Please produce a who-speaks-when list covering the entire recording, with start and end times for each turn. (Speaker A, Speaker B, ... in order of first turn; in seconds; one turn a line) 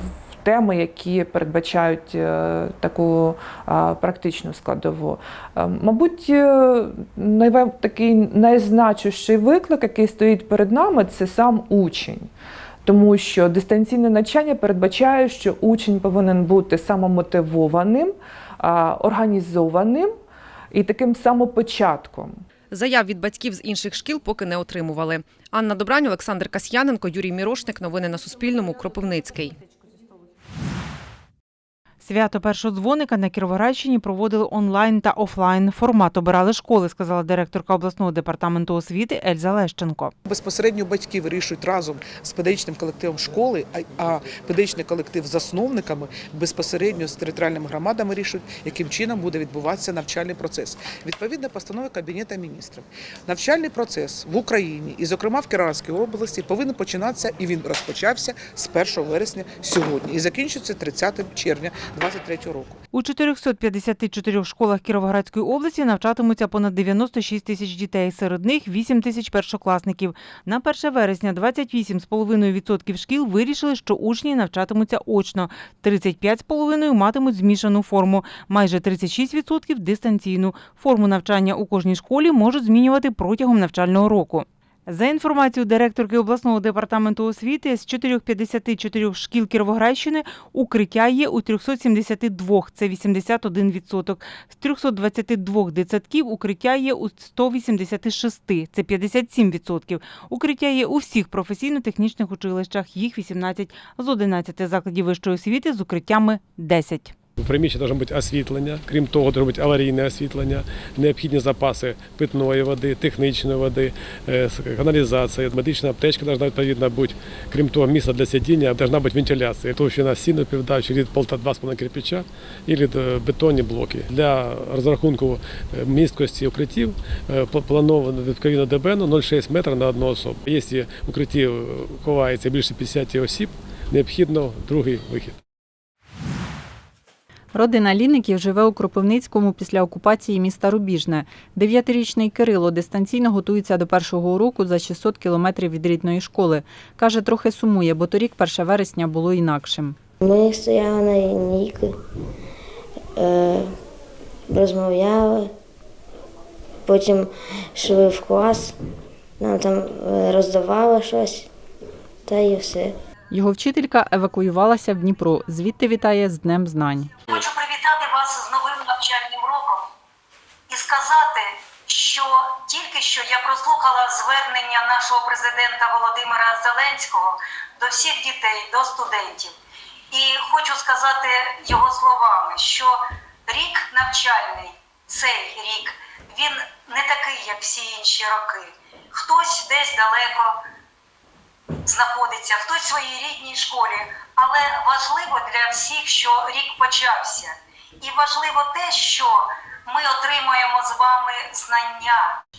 Speaker A: 0.4-12.3
Speaker A: 12.8-20.1
Speaker A: 20.7-22.4
Speaker B: 22.7-29.5
Speaker C: 32.0-40.1
Speaker D: 40.2-62.8
Speaker C: 62.9-107.1
Speaker E: 107.4-135.3
Speaker F: 137.5-150.0
Speaker G: 150.2-151.8
Speaker G: 153.2-153.6
Speaker G: 154.5-155.4
Speaker G: 156.9-157.3
Speaker G: 157.8-158.7
Speaker G: 159.4-161.4
Speaker G: 162.3-162.9
Speaker F: 163.3-167.1
Speaker H: 167.3-169.8
Speaker H: 170.7-179.5
Speaker H: 180.1-182.9
Speaker H: 183.5-190.5
Speaker H: 191.8-202.3